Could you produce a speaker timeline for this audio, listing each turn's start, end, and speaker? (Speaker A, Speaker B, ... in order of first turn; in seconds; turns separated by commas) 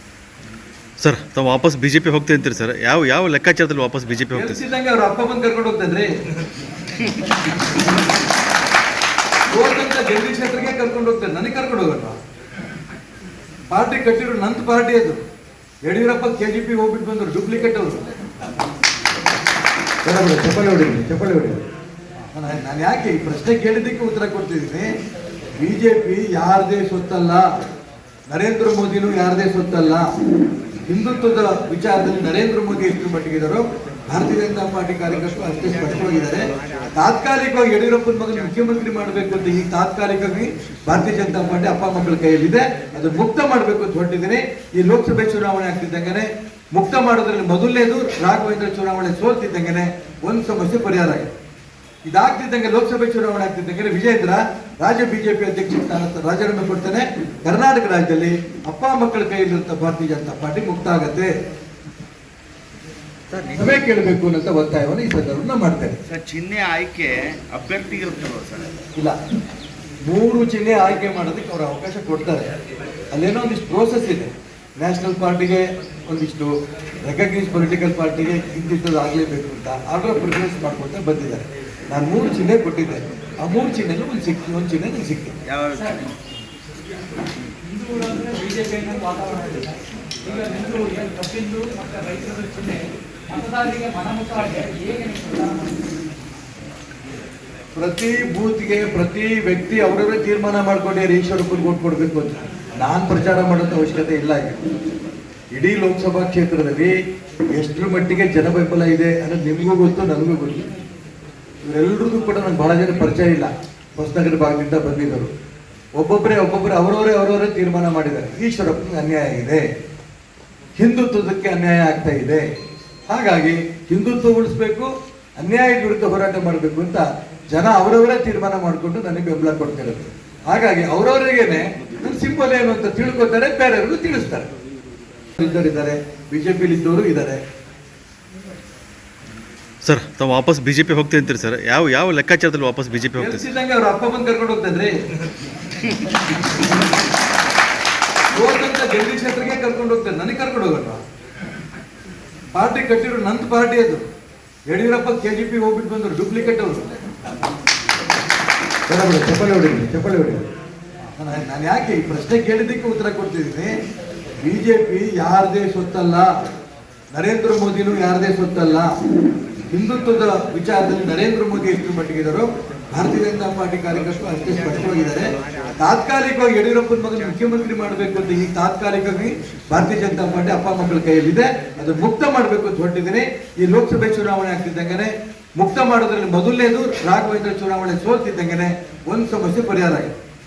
Speaker A: 1.0-4.6, Speaker B: 4.3-6.1, Speaker B: 9.5-12.2, Speaker B: 13.7-15.2, Speaker B: 15.8-18.0, Speaker B: 20.1-21.6, Speaker B: 22.3-24.9, Speaker B: 25.6-27.4, Speaker B: 28.3-30.1, Speaker B: 30.9-51.3, Speaker B: 52.1-61.3, Speaker C: 63.3-63.8, Speaker B: 63.6-66.0, Speaker C: 66.1-68.8, Speaker B: 70.0-72.5, Speaker B: 73.1-76.5, Speaker B: 77.0-85.4, Speaker C: 85.5-86.1, Speaker D: 87.7-96.0, Speaker B: 97.8-104.6, Speaker B: 105.5-107.0, Speaker B: 107.5-110.7, Speaker B: 111.7-115.3, Speaker B: 116.0-119.7, Speaker B: 120.8-122.5, Speaker B: 123.1-134.5, Speaker B: 135.4-137.4, Speaker A: 139.8-143.5, Speaker B: 143.2-145.0, Speaker B: 148.3-151.0, Speaker B: 152.5-154.0, Speaker B: 154.7-156.9, Speaker B: 158.9-160.4, Speaker B: 161.2-163.7, Speaker B: 164.4-166.3, Speaker B: 167.1-168.9, Speaker B: 169.7-190.2